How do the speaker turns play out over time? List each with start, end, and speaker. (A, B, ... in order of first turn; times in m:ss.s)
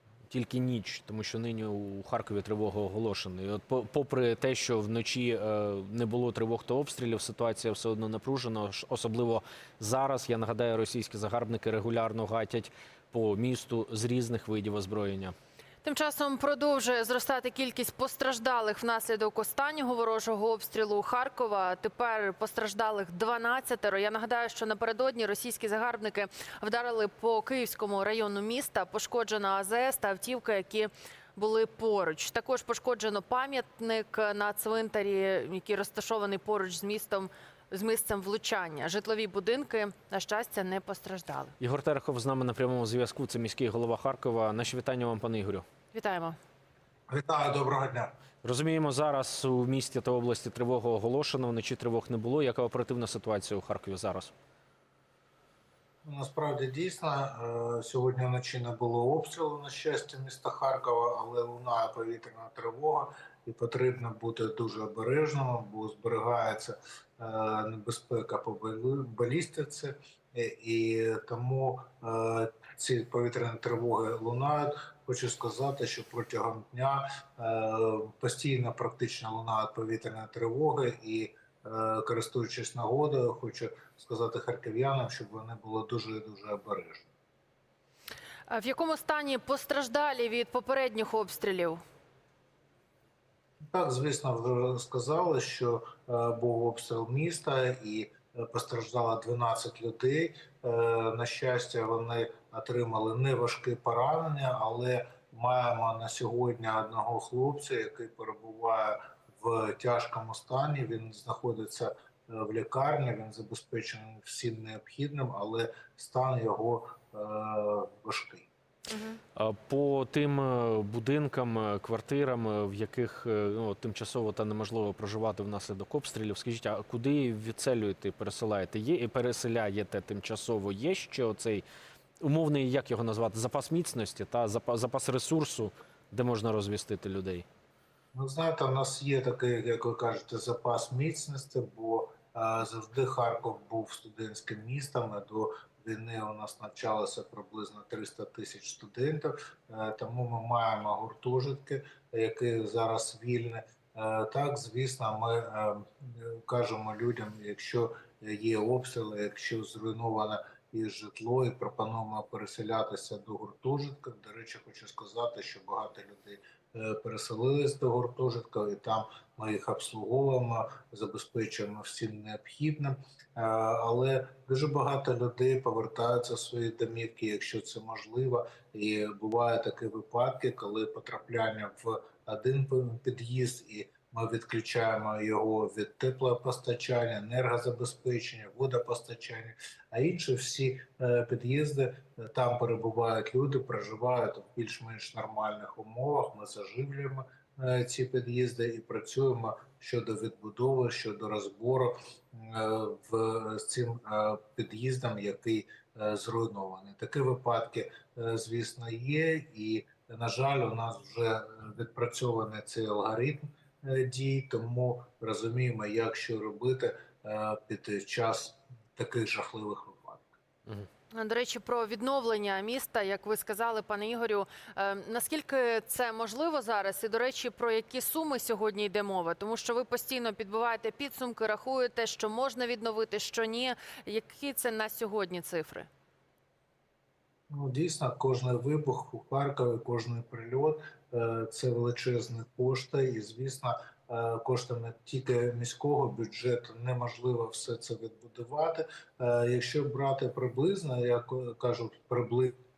0:00.3-0:15.3 A
0:15.8-0:41.5 B
0:41.6-0:45.6 A
0:45.9-0:46.4 B
0:47.1-0:48.1 C
0:48.4-0:54.3 A
0:56.0-1:27.1 C
1:28.5-1:31.8 B
1:33.7-1:58.5 C
1:58.9-1:59.2 B
1:59.3-2:11.6 A
2:12.2-2:17.4 A
2:18.1-3:40.3 C
3:41.1-3:55.9 B
3:57.5-4:12.5 C